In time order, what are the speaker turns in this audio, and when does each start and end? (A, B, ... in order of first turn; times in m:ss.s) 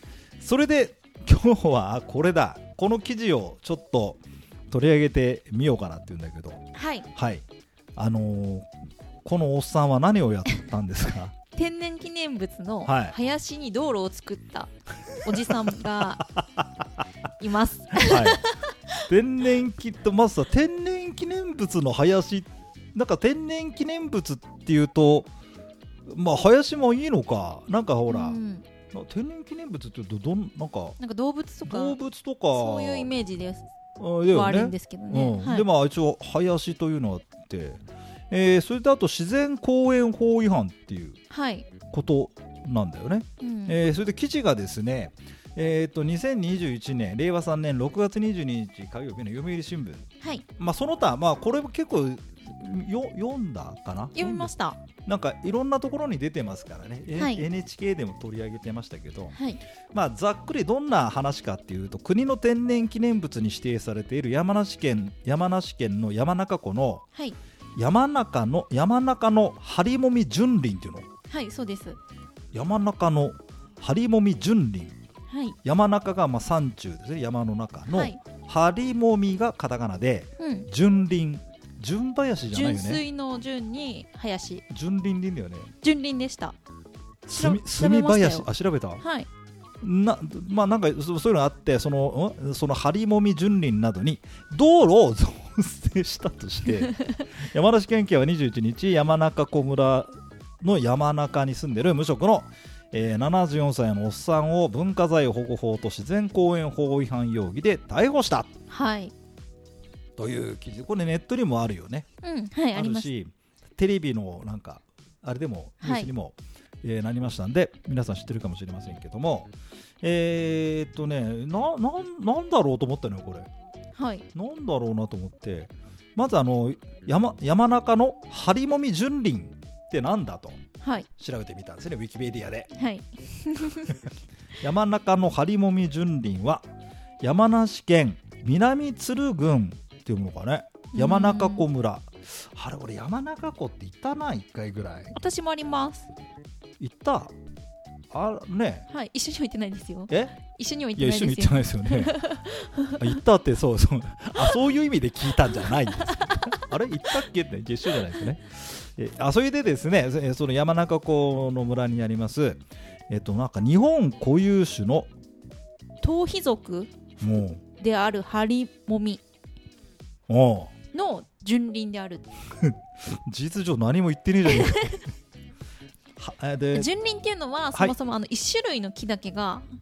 0:00.4-0:07.4 A
0:06.7-0:07.1 B
0:08.0-0:08.7 A
0:09.2-0:11.3 A
0:11.5-0:16.2 B
0:12.8-0:13.2 A
0:16.3-0:16.6 A
0:17.4-0:18.6 B
0:18.0-0:18.5 A
0:19.1-0:25.3 A
0:26.1-0:31.0 A
0:28.1-0:28.6 B
0:31.0-0:32.0 B
0:31.6-0:33.1 A
0:32.5-0:33.6 B
0:34.0-0:41.2 A
0:34.3-0:35.7 B
0:41.3-0:41.7 B
0:41.9-0:50.0 A
0:43.4-0:43.8 B
0:50.6-0:54.5 A
0:54.1-0:54.8 B
0:55.0-0:59.4 A
0:57.1-0:57.4 B
0:59.3-0:59.6 B
0:59.9-1:07.0 A
1:07.8-1:11.0 A
1:11.3-1:12.0 B
1:12.5-1:14.9 A
1:15.3-1:15.6 B
1:15.6-1:23.0 A
1:17.9-1:18.2 B
1:20.4-1:20.7 B
1:22.5-1:24.6 B
1:24.7-1:25.7 A
1:25.8-1:26.6 B
1:27.3-1:29.0 A
1:27.3-1:28.5 B
1:29.0-1:29.3 B
1:29.8-1:48.5 A
1:48.7-1:49.1 B
1:50.2-1:52.0 A
1:52.2-1:53.1 B
1:52.7-2:03.5 A
1:55.8-1:56.1 B
2:04.0-2:04.2 B
2:04.3-2:10.6 A
2:10.8-2:11.1 B
2:11.2-2:12.7 A
2:12.7-2:14.0 B
2:14.6-2:16.6 A
2:17.2-2:25.2 A
2:20.9-2:21.7 B
2:25.1-2:26.1 B
2:26.8-2:27.3 A
2:28.1-2:28.9 A
2:28.9-2:33.2 B
2:30.1-2:30.4 A
2:31.0-2:32.2 A
2:33.0-2:45.1 A
2:36.1-2:36.6 B
2:46.0-2:46.9 B
2:47.2-2:47.6 A
2:47.8-2:49.2 B
2:50.3-2:50.7 A
2:50.9-2:52.2 B
2:52.6-2:55.1 A
2:54.4-2:54.9 B
2:56.2-2:56.9 A
2:56.7-2:59.6 B